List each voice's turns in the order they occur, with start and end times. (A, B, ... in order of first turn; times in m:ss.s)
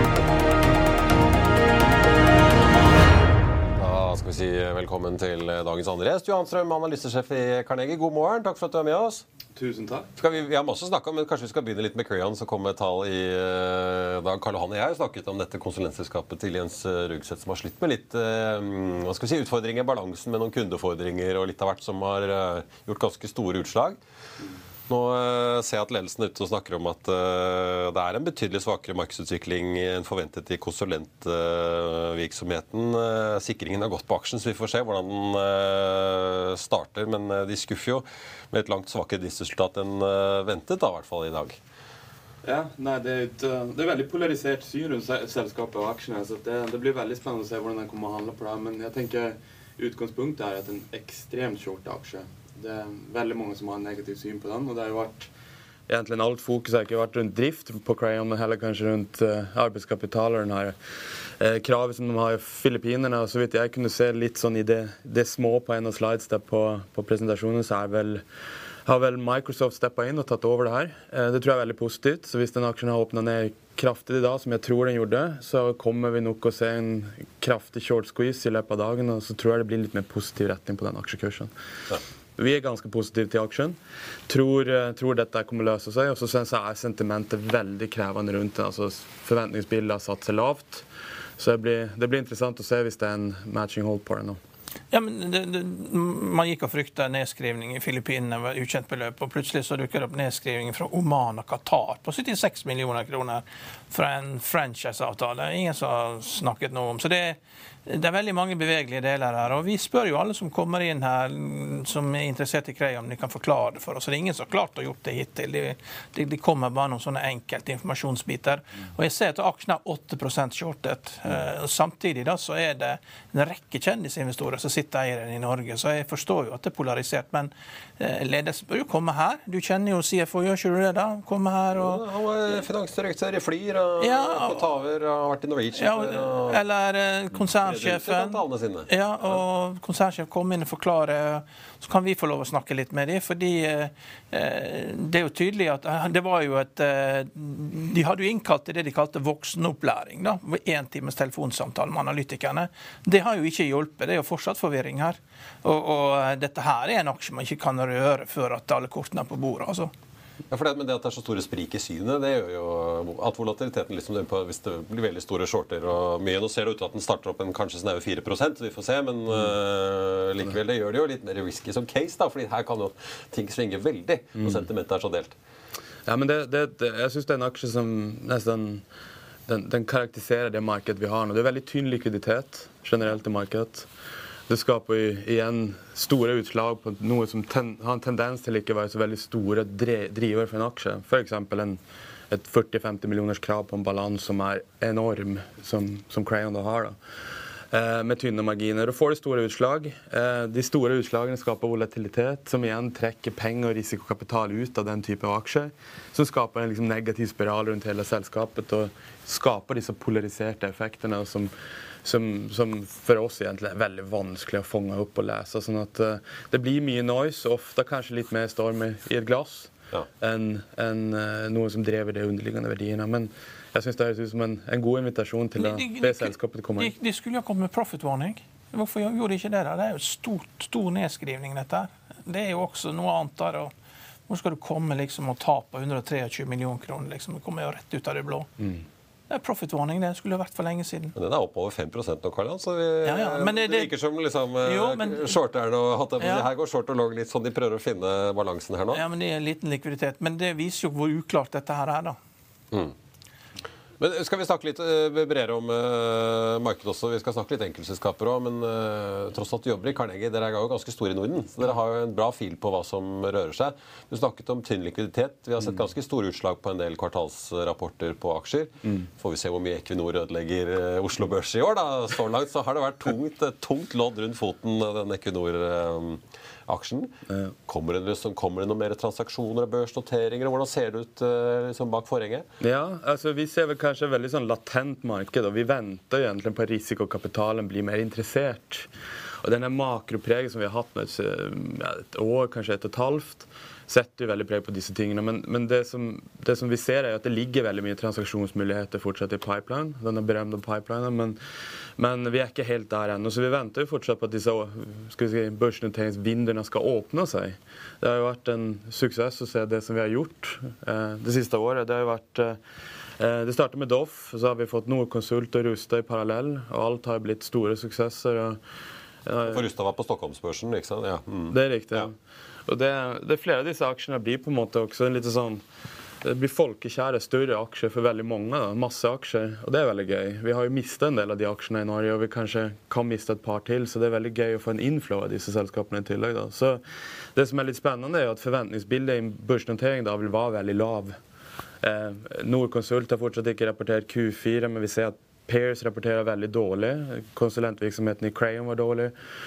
0:03.7-0:09.2 A
0:09.5-0:10.1 B
0:10.2-0:24.0 A
0:24.9-0:41.6 A
0:42.4-0:55.3 B
0:55.9-1:00.7 B
1:01.4-1:08.2 B
1:08.8-1:21.5 B
1:22.4-1:30.8 B
1:31.4-1:34.4 B
1:34.9-2:12.0 C
2:11.7-2:16.6 A
2:14.0-2:14.7 C
2:15.7-2:39.9 C
2:17.3-2:19.4 A
2:40.5-2:55.4 A
2:56.1-2:58.8 B
2:59.5-3:03.9 B
3:04.5-3:11.8 B
3:12.3-3:17.0 B
3:17.7-3:31.5 B
3:32.0-3:46.9 B
3:45.6-3:53.7 C
3:54.3-3:58.5 C
3:59.3-4:01.1 C
4:01.2-4:09.0 A
4:03.0-4:03.9 C
4:04.6-4:05.4 C
4:06.2-4:06.5 C
4:08.9-4:12.2 C
4:14.0-4:37.2 A
4:37.3-4:37.5 B
4:37.7-4:42.4 A
4:42.6-4:48.9 B
4:49.4-5:01.4 B
5:02.0-5:12.6 B
5:13.2-5:18.6 B
5:19.2-5:19.6 B
5:19.4-5:22.1 A
5:21.5-5:22.1 B
5:22.6-5:25.6 B
5:26.2-5:36.8 B
5:37.3-5:41.2 B
5:41.8-5:49.1 B